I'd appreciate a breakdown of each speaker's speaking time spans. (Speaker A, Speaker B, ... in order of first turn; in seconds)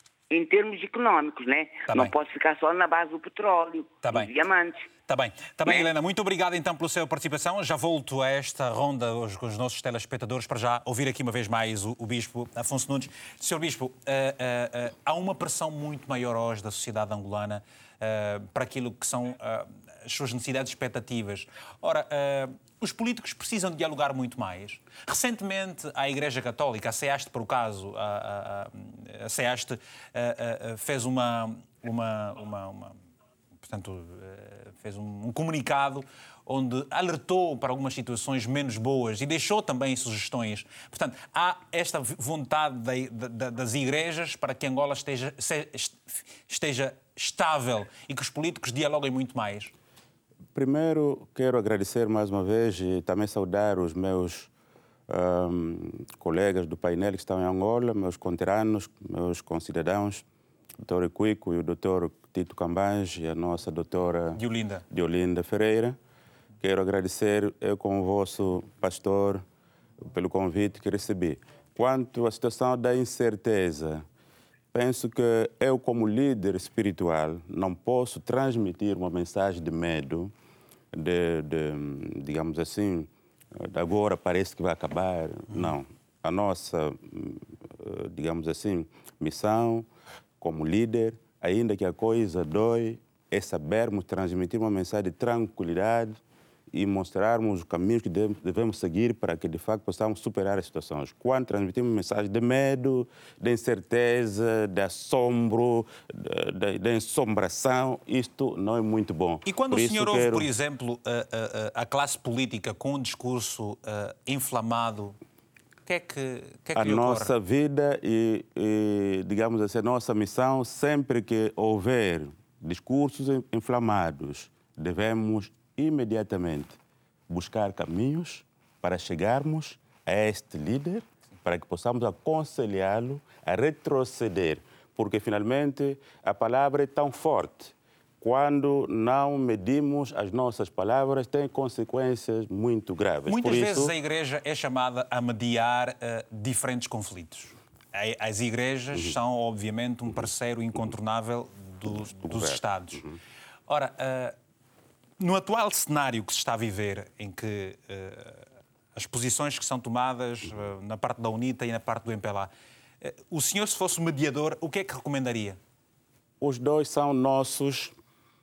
Speaker A: 0.3-4.9
Speaker B: 1.9-2.1, 4.0-4.3, 5.1-33.0, 33.6-49.7, 64.3-64.8, 109.4-115.2, 115.8-117.3, 143.3-153.0, 153.7-154.3, 155.2-162.5, 163.0-165.6
Speaker C: 50.5-54.5, 55.1-60.2, 60.8-66.0, 66.6-69.4, 70.0-74.0, 74.7-80.3, 80.9-89.9, 90.4-96.2, 96.7-110.5, 116.8-126.8, 127.3-143.9, 151.8-153.2, 166.4-167.9